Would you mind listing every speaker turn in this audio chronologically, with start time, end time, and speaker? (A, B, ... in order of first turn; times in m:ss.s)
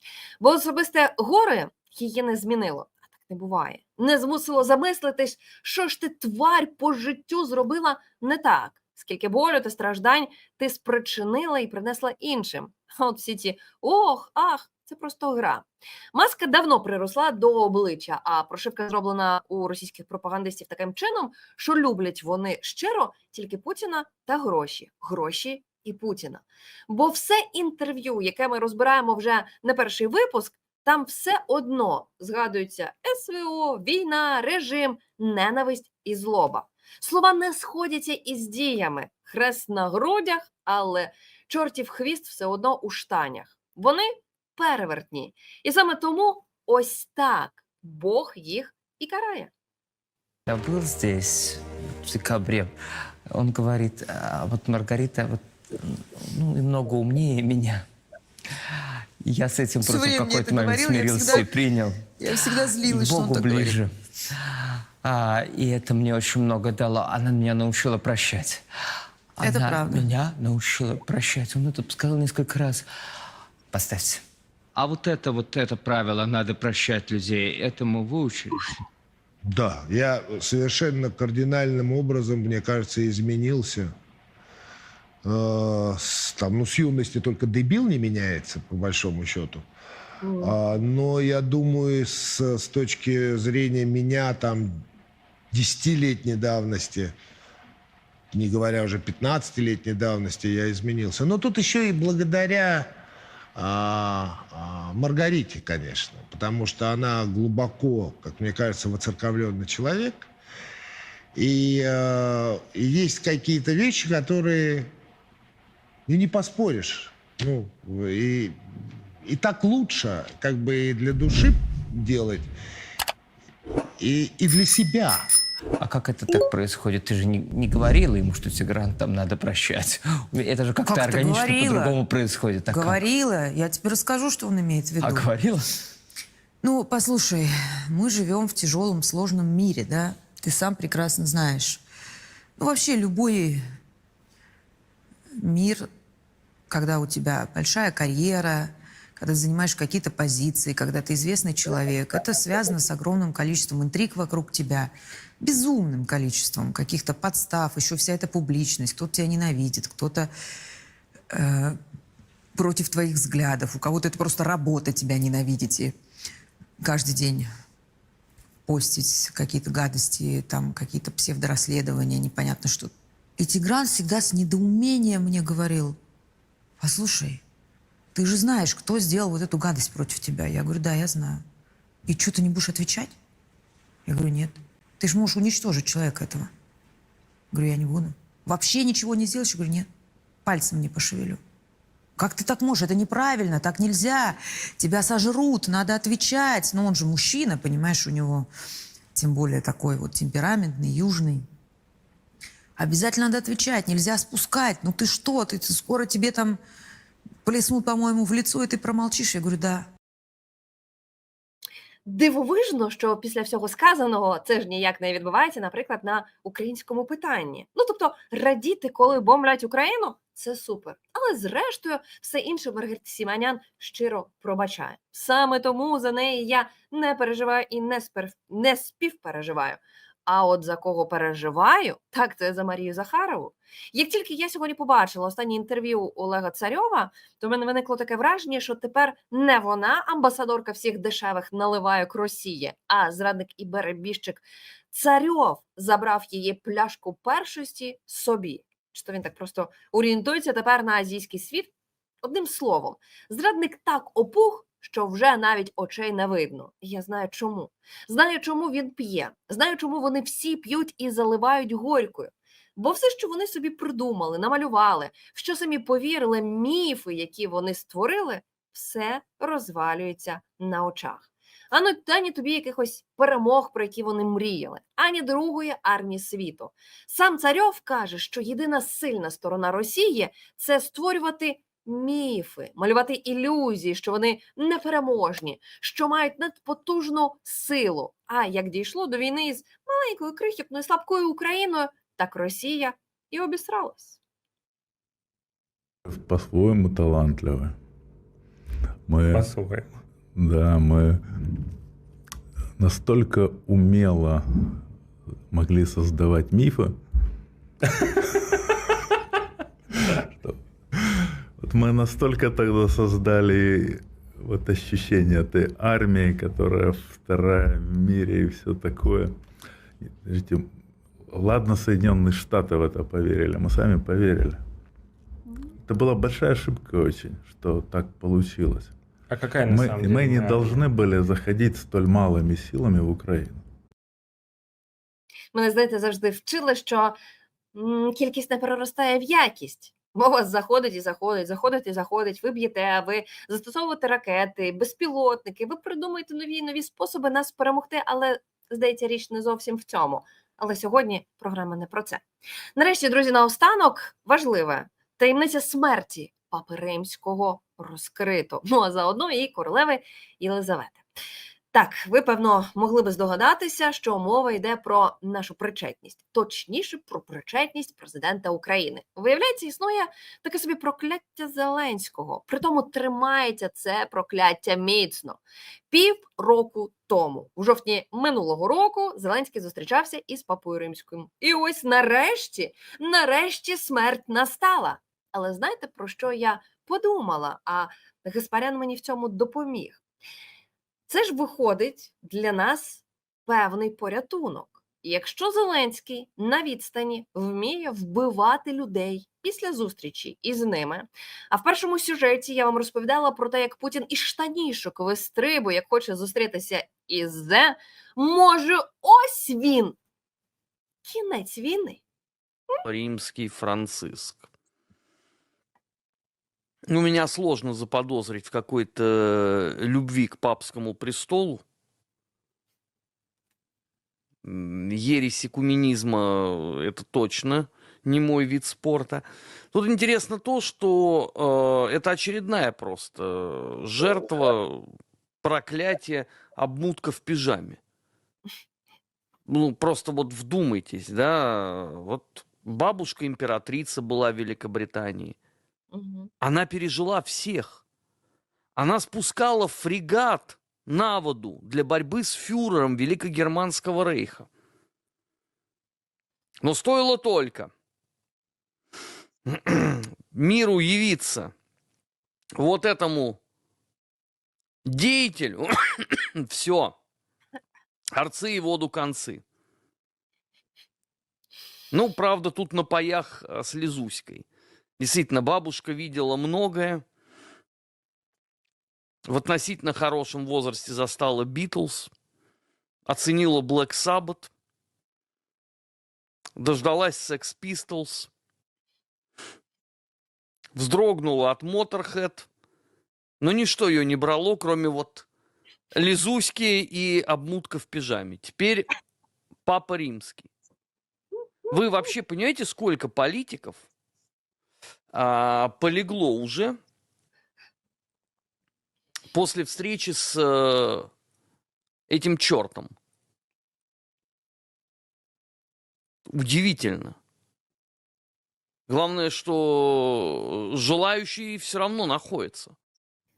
0:00.4-0:49.5 A
0:50.5-0:52.7 B
0:53.3-0:57.8 B
0:59.2-1:03.9 B
0:59.8-1:01.5 C
1:02.2-1:03.8 C
1:05.0-1:08.6 B
1:09.4-1:12.9 B
1:09.4-1:10.1 C
1:13.7-1:14.2 B
1:14.8-1:18.6 B
1:19.4-1:23.9 D
1:25.2-1:29.7 D
1:30.2-1:30.5 A
1:30.4-1:34.8 D
1:35.5-1:37.1 D
1:38.3-1:42.9 D
1:43.5-1:50.3 D
1:51.3-1:54.9 D
1:56.1-1:58.6 D
1:59.2-2:02.5 D
2:04.0-2:05.3 D
2:05.8-2:13.0 B
2:10.9-2:12.0 C
2:12.7-2:15.3 C
2:15.0-2:15.6 B
2:16.6-2:21.8 C
2:22.6-2:23.6 C
2:25.4-2:25.9 C
2:26.7-2:40.3 C
2:41.3-2:41.8 C
2:42.6-2:45.9 C
2:46.8-2:47.5 C
2:48.7-2:56.0 C
2:56.8-2:57.4 C
2:58.1-3:01.4 C
3:02.1-3:03.1 C
3:04.0-3:06.5 C
3:07.5-3:09.9 C
3:10.4-3:11.4 C
3:12.2-3:18.5 C
3:19.1-3:21.4 C
3:22.8-3:26.6 C
3:27.4-3:29.9 C
3:32.0-4:11.7 A
4:12.2-4:54.2 A
4:56.1-4:57.7 E
4:59.1-4:59.6 E
4:59.3-5:00.0 F
5:00.4-5:01.2 E
5:02.8-5:04.8 E
5:05.5-5:07.0 E
5:08.4-5:08.8 E
5:10.1-5:19.3 E
5:20.1-5:20.7 E
5:21.3-5:24.6 E
5:25.8-5:28.9 E
5:29.3-5:30.9 F
5:29.6-5:33.6 E
5:35.5-5:37.2 A
5:37.7-5:52.2 A
5:52.8-6:01.0 A
6:01.7-6:15.4 A
6:15.9-6:30.0 A
6:31.1-6:50.0 A
6:51.0-6:52.0 A
6:52.8-6:54.4 G
6:56.9-7:01.6 G
7:04.4-7:17.8 G
7:19.4-7:25.4 G
7:25.9-7:26.3 A
7:26.4-7:27.8 G
7:28.8-7:34.5 G
7:36.6-7:37.7 G
7:39.4-7:41.5 G
7:42.6-7:43.4 G
7:44.8-7:47.0 G
7:48.1-7:49.4 G
7:51.9-7:54.4 G
7:55.0-7:57.0 G
7:59.3-8:02.1 G
8:03.1-8:04.5 G
8:06.6-8:08.3 G
8:10.7-8:12.5 G
8:13.4-8:15.2 G
8:15.9-8:18.9 G
8:19.6-8:20.5 G
8:21.7-8:23.8 G
8:25.1-8:26.8 G
8:29.3-8:31.1 G
8:32.1-8:32.9 G
8:36.3-8:37.2 G
8:38.9-8:42.7 G